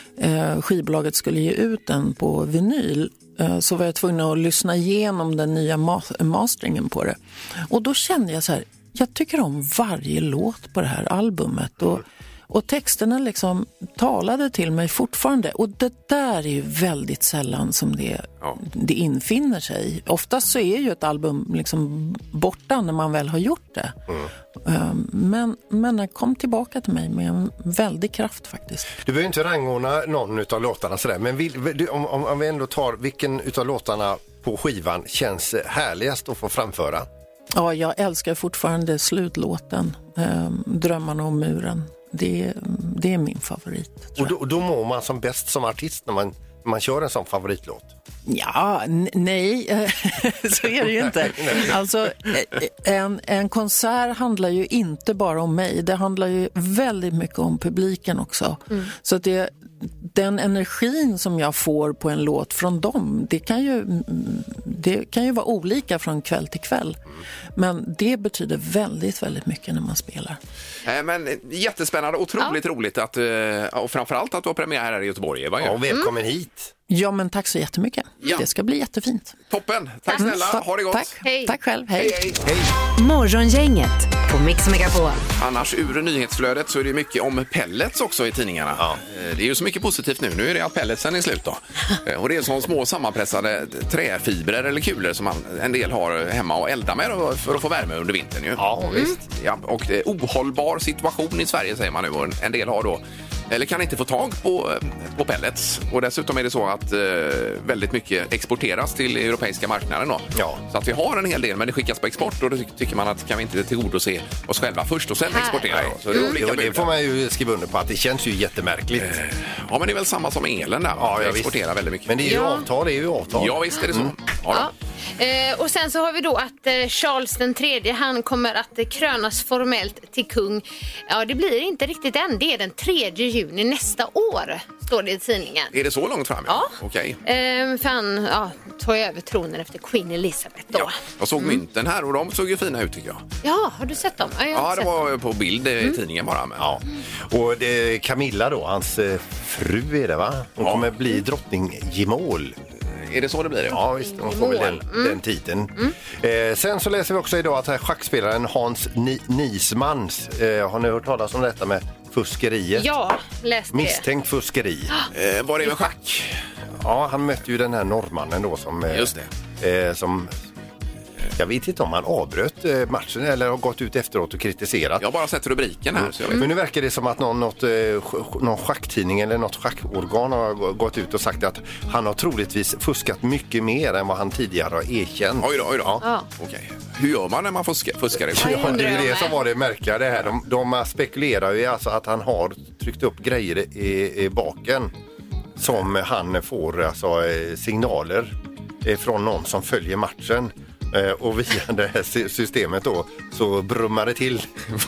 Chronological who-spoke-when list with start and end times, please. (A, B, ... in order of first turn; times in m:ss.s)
0:00.2-0:07.2 A
0:07.7-0:24.0 A
0:24.6-0:28.9 A
0:29.0-0:37.1 B
0:37.5-0:44.3 A
0:44.2-0:47.9 B
0:48.2-1:07.0 A
0:51.2-0:51.7 B
1:07.5-1:10.4 A
1:10.8-1:15.8 C
1:15.6-1:16.7 B
1:16.9-1:19.3 A
1:19.5-1:21.2 C
1:20.1-1:20.3 D
1:20.2-1:22.2 A
1:21.2-1:21.5 D
1:21.9-1:22.4 C
1:22.4-1:22.7 B
1:23.0-1:25.2 E
1:25.4-1:56.9 C
1:38.6-1:39.2 B
1:50.3-1:50.6 B
1:55.3-1:56.4 D
1:55.8-1:59.2 B
1:59.0-2:02.4 C
2:01.0-2:04.1 B
2:02.2-2:02.6 D
2:03.3-2:04.7 C
2:04.5-2:15.7 D
2:15.7-2:17.2 C
2:16.5-2:16.7 D
2:17.2-2:21.6 D
2:20.7-2:23.2 C
2:23.4-2:24.9 D
2:24.5-2:26.7 C
2:26.6-2:32.6 B
2:30.6-2:30.9 C
2:32.9-2:33.8 C
2:33.7-2:42.9 B
2:34.0-2:35.2 D
2:42.8-2:44.0 D
2:43.7-2:44.9 B
2:45.1-2:46.4 C
2:46.8-2:50.3 B
2:48.9-2:49.3 C
2:51.4-2:55.0 B
2:55.0-2:56.5 C
2:55.9-3:06.0 B
3:05.4-3:09.1 C
3:08.3-3:14.9 B
3:08.3-3:09.3 D
3:15.6-3:24.5 B